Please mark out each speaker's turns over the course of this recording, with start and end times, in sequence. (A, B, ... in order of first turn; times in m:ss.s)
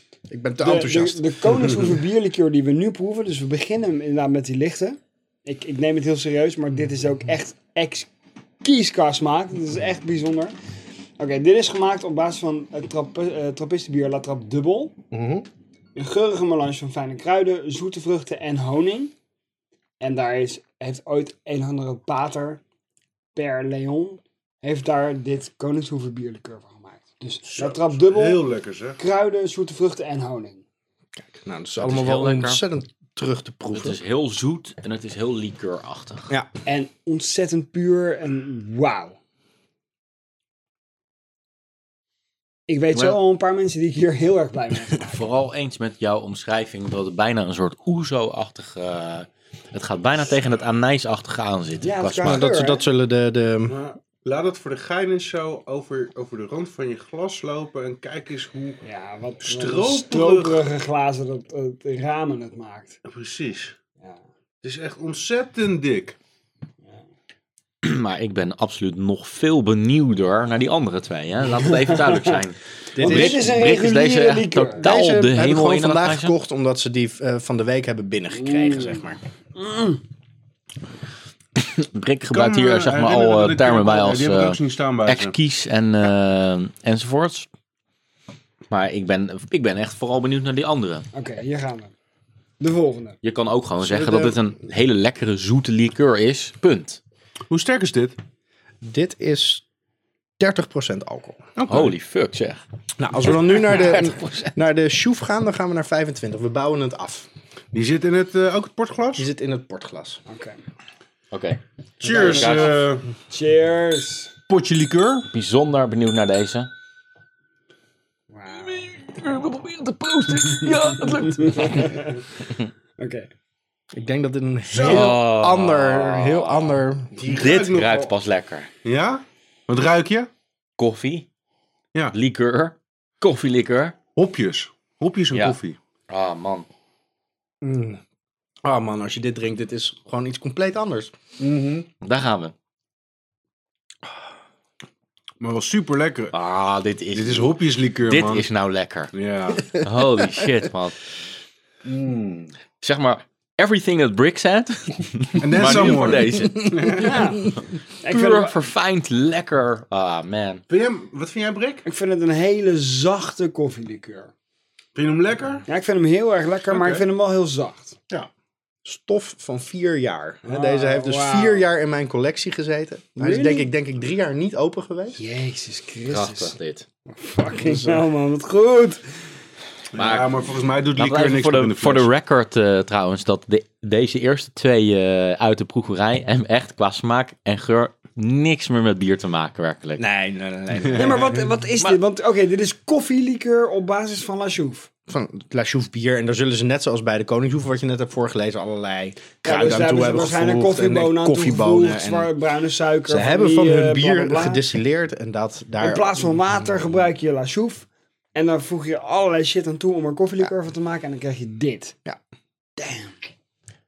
0:00.3-0:01.3 A
0:00.6-0:08.1 B
0:08.6-0:10.5 B
0:11.2-0:15.0 B
0:15.1-0:15.4 A
0:16.0-0:19.1 B
0:20.0-0:22.6 B
0:23.4-0:28.5 B
0:27.4-0:29.0 C
0:29.0-0:30.6 B
0:31.2-0:34.0 A
0:31.8-0:32.6 D
0:33.7-0:36.3 D
0:36.7-0:39.2 B
0:42.7-0:45.2 B
0:45.1-0:52.5 D
0:51.8-0:52.9 B
0:52.2-0:53.8 A
0:53.7-0:58.8 C
0:58.8-1:03.0 B
0:59.4-1:00.7 C
1:03.1-1:03.8 C
1:04.6-1:06.2 C
1:07.8-1:16.4 D
1:11.6-1:12.3 B
1:13.0-1:13.4 A
1:13.0-1:14.9 B
1:14.8-1:19.2 A
1:18.4-1:19.0 B
1:19.6-1:20.0 B
1:21.6-1:27.5 D
1:22.3-1:25.4 C
1:28.7-1:31.0 D
1:31.1-1:31.9 B
1:32.6-1:33.2 B
1:33.2-1:37.0 D
1:33.8-1:34.4 A
1:37.5-1:38.2 C
1:38.8-1:39.6 A
1:40.4-1:41.9 A
1:41.6-1:42.6 D
1:43.0-1:47.3 A
1:43.2-1:44.6 D
1:47.7-1:49.3 C
1:49.2-1:50.2 A
1:50.3-1:50.6 B
1:51.3-1:52.8 D
1:52.0-1:53.1 C
1:52.1-1:54.3 B
1:54.5-1:55.3 C
1:55.3-1:56.7 D
1:58.3-1:58.9 B
1:58.5-2:02.0 D
2:01.0-2:02.2 B
2:03.0-2:03.3 B
2:03.9-2:07.1 A
2:04.7-2:05.1 C
2:04.8-2:06.8 D
2:07.1-2:08.1 C
2:07.3-2:08.7 D
2:08.8-2:10.3 C
2:10.8-2:11.3 D
2:12.1-2:14.0 D
2:14.2-2:15.8 C
2:16.1-2:16.7 D
2:17.6-2:18.0 A
2:18.6-2:21.1 A
2:21.4-2:21.9 C
2:22.0-2:22.5 D
2:25.4-2:26.3 C
2:26.3-2:29.1 D
2:27.1-2:28.5 C
2:29.1-2:29.7 C
2:29.7-2:31.0 D
2:31.8-2:32.5 C
2:32.8-2:37.0 D
2:35.4-2:37.2 C
2:37.0-2:38.6 B
2:38.0-2:40.6 D
2:40.7-2:41.8 C
2:41.8-2:44.3 B
2:45.0-2:45.6 C
2:45.7-2:48.0 B
2:46.7-2:47.0 C
2:48.8-2:55.2 A
2:50.4-2:51.7 B
2:53.2-2:53.7 B
2:55.2-2:56.6 B
2:56.1-2:56.9 D
2:57.1-2:59.0 B
2:57.6-2:58.0 A
2:59.9-3:02.1 C
3:00.0-3:00.4 D
3:01.0-3:10.0 D
3:10.0-3:11.3 A
3:10.8-3:11.4 C
3:11.0-3:14.9 B
3:15.1-3:22.3 A
3:19.4-3:24.6 B
3:23.1-3:26.3 A
3:25.8-3:32.0 B
3:32.8-3:33.1 B